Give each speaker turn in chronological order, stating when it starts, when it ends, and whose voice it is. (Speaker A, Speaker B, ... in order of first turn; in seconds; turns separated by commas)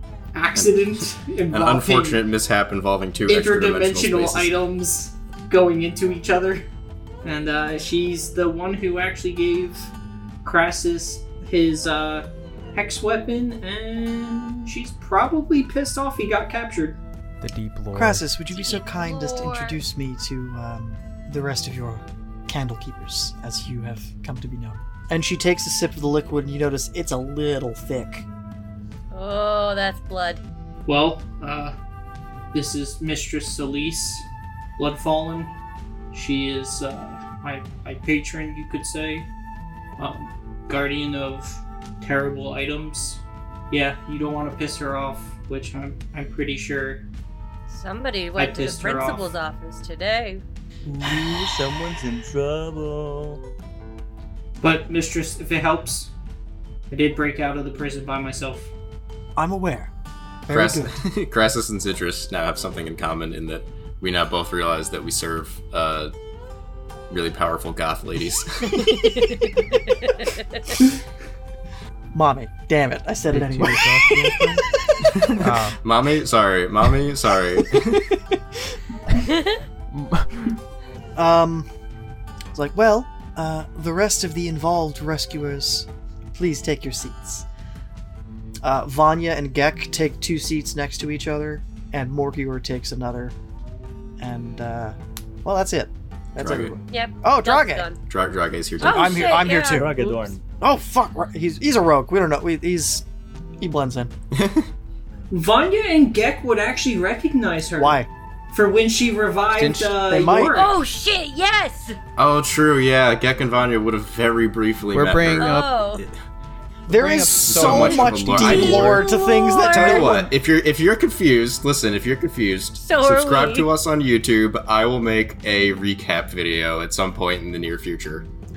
Speaker A: 0.3-2.2, Speaker B: 0.6-4.5, Speaker A: 3.3-6.7, Speaker A: 7.2-9.9, Speaker A: 10.4-17.0, Speaker C: 17.4-18.2, Speaker D: 17.9-28.3, Speaker E: 18.5-19.8, Speaker E: 29.1-30.4, Speaker A: 30.9-31.7, Speaker A: 32.5-34.3, Speaker A: 34.8-35.5, Speaker A: 36.1-39.3, Speaker A: 40.0-47.0, Speaker E: 47.7-50.4, Speaker A: 48.4-49.3, Speaker F: 50.9-53.4, Speaker A: 54.6-56.1, Speaker A: 56.9-58.7, Speaker D: 59.4-59.9, Speaker D: 60.5-61.0, Speaker B: 60.5-66.1, Speaker B: 67.1-68.9, Speaker D: 72.1-74.6, Speaker C: 73.3-74.7, Speaker B: 75.1-78.1, Speaker C: 75.4-75.8, Speaker E: 79.3-79.6, Speaker C: 79.9-80.5, Speaker D: 81.2-81.7, Speaker D: 82.5-87.5, Speaker D: 88.6-93.3, Speaker D: 94.2-97.9, Speaker B: 96.4-96.8, Speaker E: 96.9-98.0, Speaker B: 98.1-99.1, Speaker D: 98.8-99.9, Speaker E: 98.8-100.3, Speaker F: 99.7-100.4, Speaker D: 100.6-103.0, Speaker D: 103.6-104.1, Speaker B: 104.3-104.7, Speaker A: 105.3-110.8, Speaker D: 107.8-108.1, Speaker C: 109.5-109.9, Speaker D: 110.0-110.6, Speaker E: 110.5-112.0, Speaker B: 112.2-116.1, Speaker C: 114.9-115.7, Speaker E: 115.4-116.0, Speaker C: 116.9-118.8, Speaker D: 116.9-120.3, Speaker B: 117.4-119.0, Speaker E: 118.4-120.1, Speaker B: 119.7-128.3, Speaker E: 122.8-123.7